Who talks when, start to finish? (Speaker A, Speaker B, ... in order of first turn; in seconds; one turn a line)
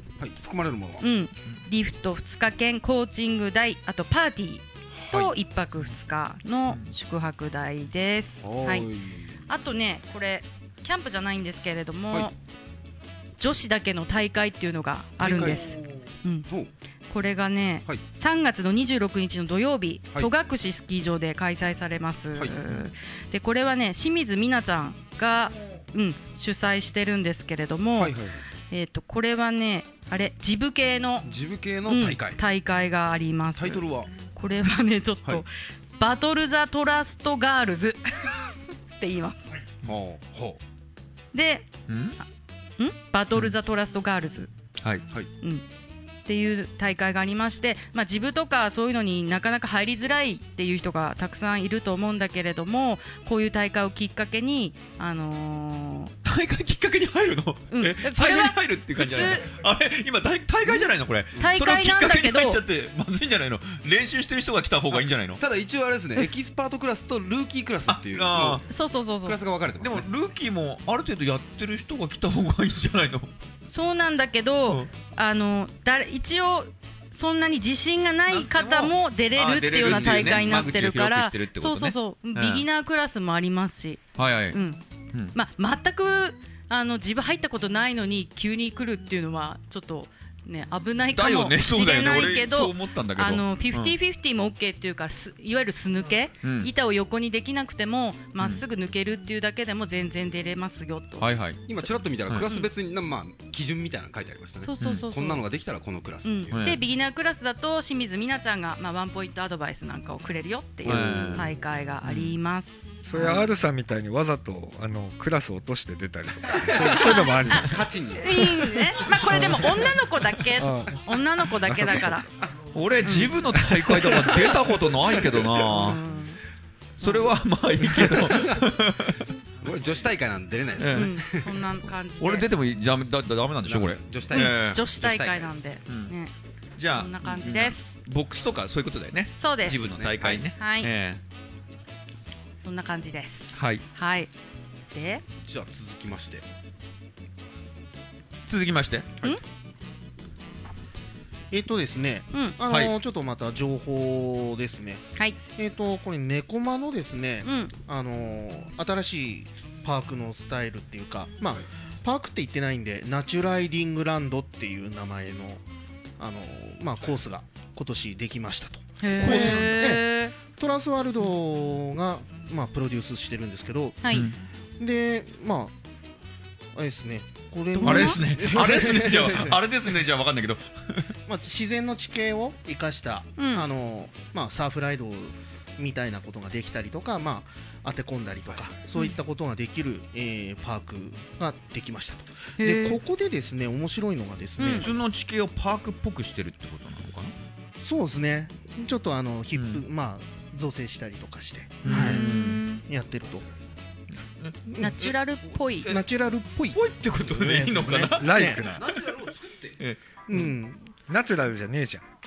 Speaker A: 0.2-1.1
Speaker B: 1.0-8.9
Speaker A: 5.0-5.3
Speaker A: 8.4-9.4
Speaker B: 9.5-12.3
Speaker B: 13.4-16.5
Speaker A: 15.3-15.7
Speaker B: 17.1-28.1
Speaker A: 22.4-22.9
Speaker A: 27.9-28.4
Speaker B: 28.7-31.3
Speaker A: 31.2-32.4
Speaker B: 31.9-39.5
Speaker A: 33.6-34.1
Speaker A: 39.8-40.6
Speaker B: 41.3-41.7
Speaker C: 41.9-42.2
Speaker B: 42.8-44.5
Speaker B: 45.4-45.6
Speaker B: 46.2-56.1
Speaker C: 56.2-65.4
Speaker B: 57.7-59.5
Speaker B: 61.4-62.6
Speaker A: 65.4-68.7
Speaker C: 67.9-68.6
Speaker B: 68.7-69.4
Speaker A: 69.2-70.1
Speaker C: 69.8-73.3
Speaker B: 73.6-84.8
Speaker C: 79.3-82.7
Speaker A: 79.9-80.4
Speaker C: 84.2-84.6
Speaker B: 85.3-101.9
Speaker C: 91.2-94.0
Speaker C: 96.4-96.7
Speaker C: 101.2-101.7
Speaker A: 101.7-106.7
Speaker B: 104.6-105.5
Speaker C: 104.8-105.1
Speaker B: 106.2-113.5
Speaker C: 106.5-106.8
Speaker C: 110.8-111.5
Speaker A: 110.8-111.5
Speaker C: 112.0-112.4
Speaker D: 113.0-117.8
Speaker A: 116.7-119.1
Speaker B: 116.9-122.3
Speaker D: 119.3-119.7
Speaker D: 120.6-121.0
Speaker D: 121.7-122.1
Speaker C: 122.7-126.0
Speaker B: 123.0-123.4
Speaker D: 123.6-124.1
Speaker B: 125.6-126.4
Speaker C: 127.0-129.2
Speaker B: 127.0-127.3
Speaker A: 127.9-128.6
Speaker A: 129.6-131.5
Speaker C: 130.8-131.1
Speaker B: 130.9-132.5
Speaker C: 132.2-134.8
Speaker A: 133.7-135.6
Speaker B: 134.3-136.3
Speaker C: 135.9-136.1
Speaker C: 136.8-141.2
Speaker B: 136.9-137.9
Speaker B: 139.3-139.8
Speaker A: 139.7-140.4
Speaker B: 140.6-140.9
Speaker B: 142.6-144.3
Speaker C: 143.5-143.8
Speaker B: 144.9-145.2
Speaker A: 145.4-146.4
Speaker C: 148.5-149.2
Speaker E: 151.5-165.6
Speaker B: 157.4-157.7
Speaker E: 166.2-174.2
Speaker B: 169.0-170.3
Speaker C: 169.2-169.8
Speaker B: 174.0-174.3
Speaker E: 174.8-175.7
Speaker E: 176.8-179.7
Speaker B: 177.7-178.2
Speaker C: 177.8-181.1
Speaker E: 181.3-194.9
Speaker B: 183.4-183.7
Speaker B: 192.6-193.0
Speaker B: 194.6-194.9
Speaker C: 194.8-197.3
Speaker E: 197.8-203.5
Speaker C: 199.6-199.8
Speaker C: 201.8-202.6
Speaker B: 201.9-202.8
Speaker C: 204.4-205.1
Speaker E: 204.7-205.0
Speaker B: 204.8-205.9
Speaker C: 205.7-206.0
Speaker E: 205.9-208.6
Speaker C: 206.7-209.0
Speaker D: 208.2-208.8
Speaker A: 208.7-209.8
Speaker E: 210.3-210.9
Speaker D: 211.1-212.0